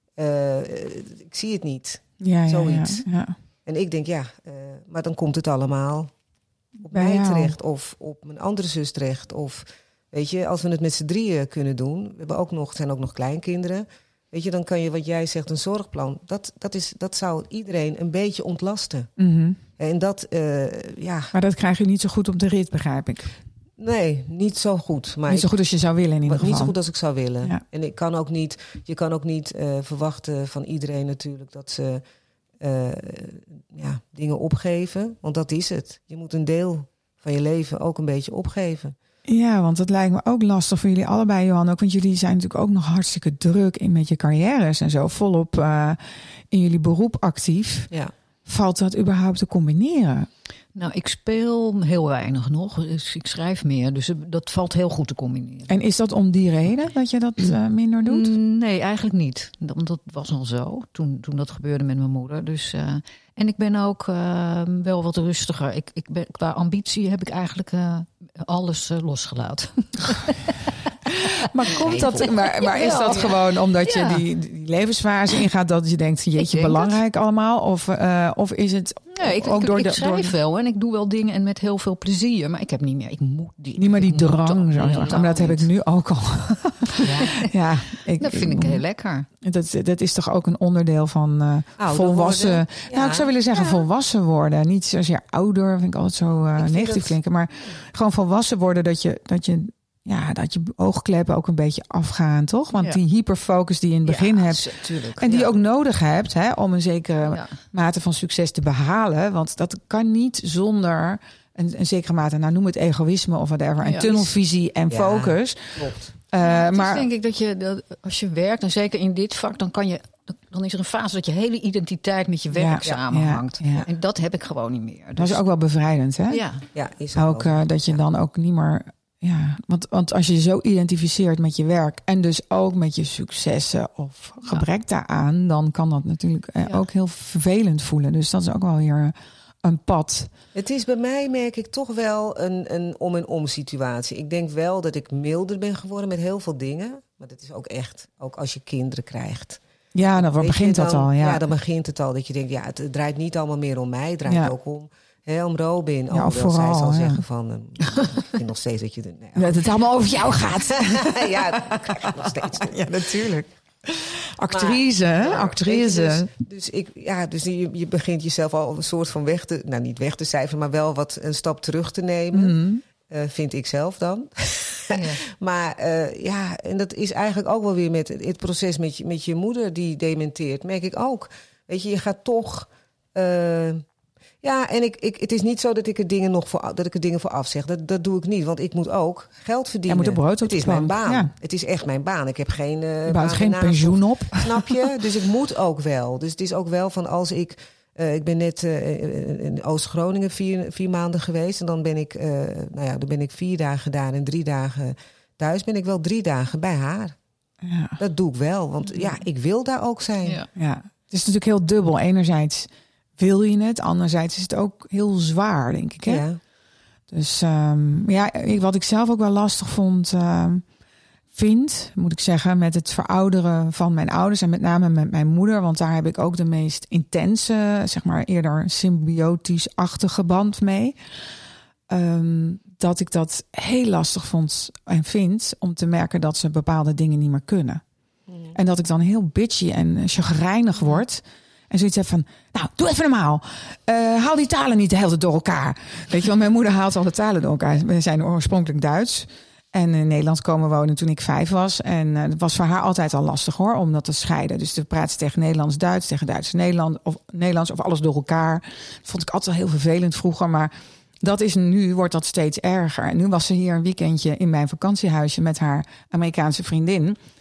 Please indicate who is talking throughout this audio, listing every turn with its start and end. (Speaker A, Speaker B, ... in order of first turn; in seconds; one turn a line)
Speaker A: 0.2-3.1
Speaker B: 2.2-3.4
Speaker A: 3.6-6.1
Speaker A: 6.8-19.1
Speaker B: 6.9-7.5
Speaker B: 19.2-19.6
Speaker A: 19.8-21.3
Speaker B: 21.3-23.3
Speaker A: 23.8-25.5
Speaker B: 25.3-26.8
Speaker A: 26.2-32.0
Speaker A: 32.6-39.0
Speaker B: 39.3-46.0
Speaker B: 46.5-47.9
Speaker B: 48.5-50.3
Speaker C: 50.8-55.7
Speaker B: 55.7-58.4
Speaker C: 58.0-74.2
Speaker B: 71.1-80.3
Speaker A: 71.9-72.2
Speaker C: 76.4-77.0
Speaker C: 79.2-85.6
Speaker B: 83.8-88.8
Speaker A: 84.8-85.2
Speaker C: 87.0-87.5
Speaker C: 88.2-89.3
Speaker B: 89.4-117.0
Speaker A: 91.8-93.3
Speaker A: 96.6-97.1
Speaker C: 102.8-103.0
Speaker C: 104.0-105.4
Speaker A: 105.2-105.5
Speaker C: 107.2-107.5
Speaker C: 113.8-114.3
Speaker A: 114.9-116.1
Speaker C: 116.4-125.4
Speaker B: 122.5-123.8
Speaker B: 125.2-126.4
Speaker C: 126.3-126.6
Speaker A: 126.7-128.0
Speaker B: 127.2-140.3
Speaker A: 140.5-149.6
Speaker B: 149.9-151.4
Speaker A: 150.2-159.5
Speaker B: 154.3-154.5
Speaker B: 156.1-157.2
Speaker B: 159.4-166.3
Speaker A: 160.7-162.8
Speaker A: 164.5-183.8
Speaker B: 172.3-172.8
Speaker C: 174.9-175.2
Speaker A: 184.4-207.2
Speaker B: 189.9-191.3
Speaker B: 193.1-194.8
Speaker B: 207.6-208.0
Speaker A: 208.0-210.4
Speaker C: 210.2-210.5
Speaker B: 210.6-216.3
Speaker A: 216.1-216.4
Speaker B: 217.1-220.7
Speaker B: 221.3-231.0
Speaker B: 231.9-237.8
Speaker B: 238.5-267.2